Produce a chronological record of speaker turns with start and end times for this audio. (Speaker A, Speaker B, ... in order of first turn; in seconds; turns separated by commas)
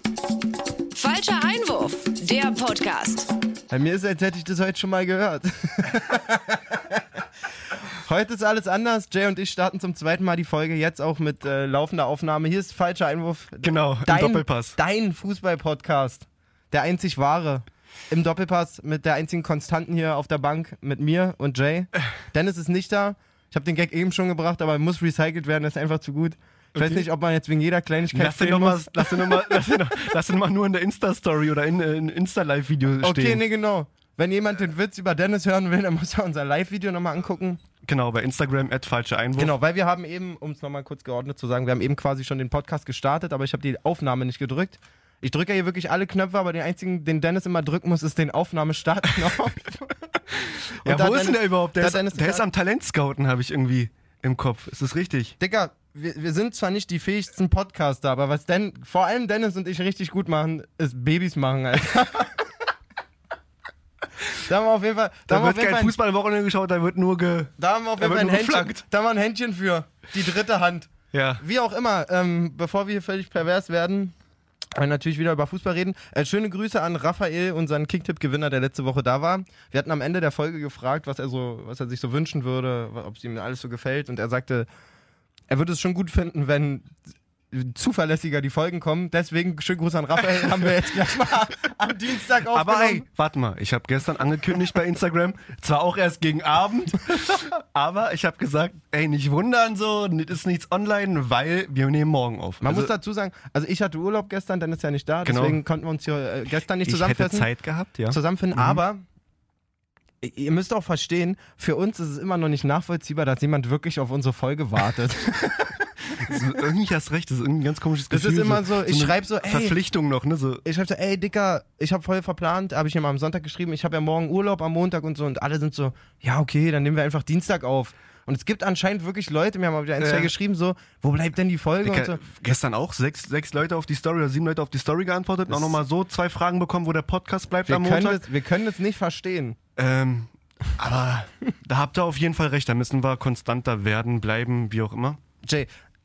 Speaker A: 0.9-3.3, Speaker B: 3.7-7.2, Speaker B: 7.9-29.6, Speaker C: 13.6-14.8, Speaker C: 26.8-27.1, Speaker C: 28.1-33.4, Speaker B: 33.0-37.6, Speaker C: 37.8-39.5, Speaker B: 39.4-50.0, Speaker C: 50.3-55.4, Speaker B: 50.8-52.5, Speaker B: 55.4-62.5, Speaker B: 64.3-66.0, Speaker C: 65.3-68.8, Speaker B: 67.6-74.2, Speaker C: 71.1-71.4, Speaker B: 74.8-84.7, Speaker B: 85.5-86.9, Speaker B: 87.5-93.0, Speaker C: 92.5-102.9, Speaker B: 102.6-107.5, Speaker C: 105.2-105.6, Speaker C: 106.9-108.8, Speaker B: 108.1-109.0, Speaker B: 110.2-115.8, Speaker C: 116.1-120.6, Speaker B: 118.1-119.8, Speaker B: 120.6-132.2, Speaker C: 130.0-130.3, Speaker C: 131.8-138.2, Speaker B: 135.5-135.8, Speaker B: 137.7-139.6, Speaker C: 139.8-145.2, Speaker B: 145.4-145.7